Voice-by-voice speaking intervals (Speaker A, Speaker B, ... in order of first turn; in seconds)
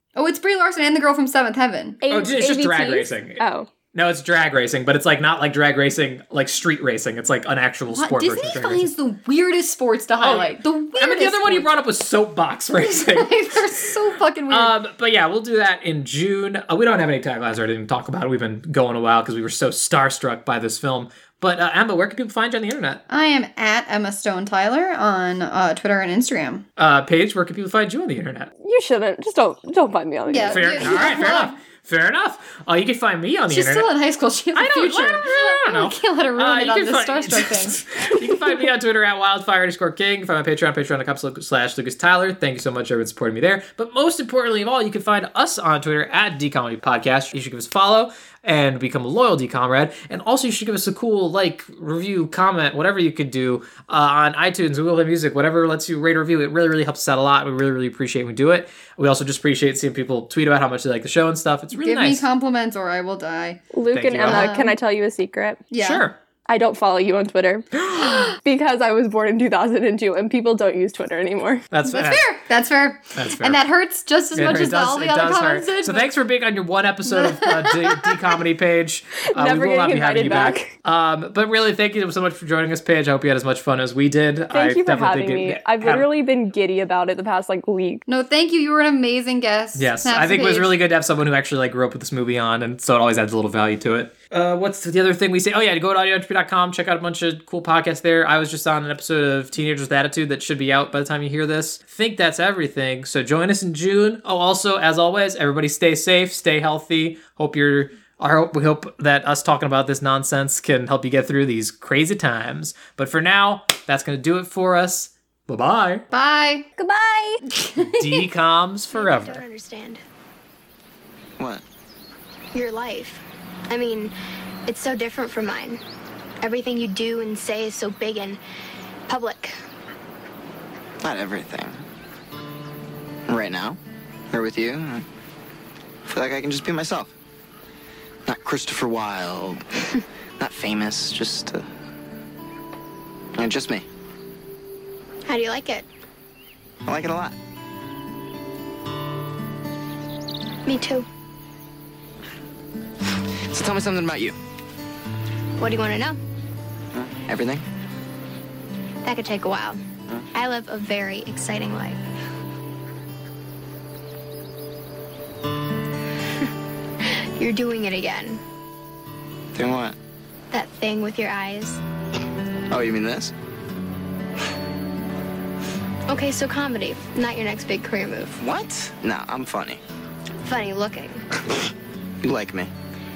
Speaker A: 0.1-2.0, 7.9-11.7, 12.8-14.7, 23.1-26.6, 30.3-31.5, 33.5-37.8, 61.7-63.6, 64.2-64.7, 65.7-66.0, 71.8-76.1, 77.2-78.1, 88.1-90.7, 116.1-116.6, 117.5-118.2
Speaker B: 2.0-3.7, 28.6-31.2, 63.7-65.7, 66.5-71.6, 79.3-80.7, 84.5-88.0, 116.8-117.4
Speaker C: 2.1-3.4, 3.9-8.9, 10.2-13.9, 14.5-23.0, 26.8-28.5, 30.5-33.9, 34.5-62.2, 63.9-64.5, 65.8-66.2, 67.9-68.1, 71.7-72.2, 73.2-73.6, 74.3-86.1, 89.8-116.0, 117.8-119.4
Speaker D: 118.9-120.0, 122.5-124.1, 124.7-125.8, 126.4-128.4, 129.1-129.5, 145.2-145.8, 150.7-151.1, 155.6-156.2, 159.0-159.8, 160.3-162.0, 167.4-168.4, 170.5-171.8, 176.1-178.4, 180.4-181.2
Speaker E: 131.0-131.8, 133.3-133.8, 134.3-135.0, 136.1-137.1, 138.2-139.6, 140.4-141.7, 143.3-143.8, 146.8-147.3, 153.5-154.3, 156.9-157.6, 169.5-169.9, 172.7-173.3, 178.4-179.8, 182.2-182.7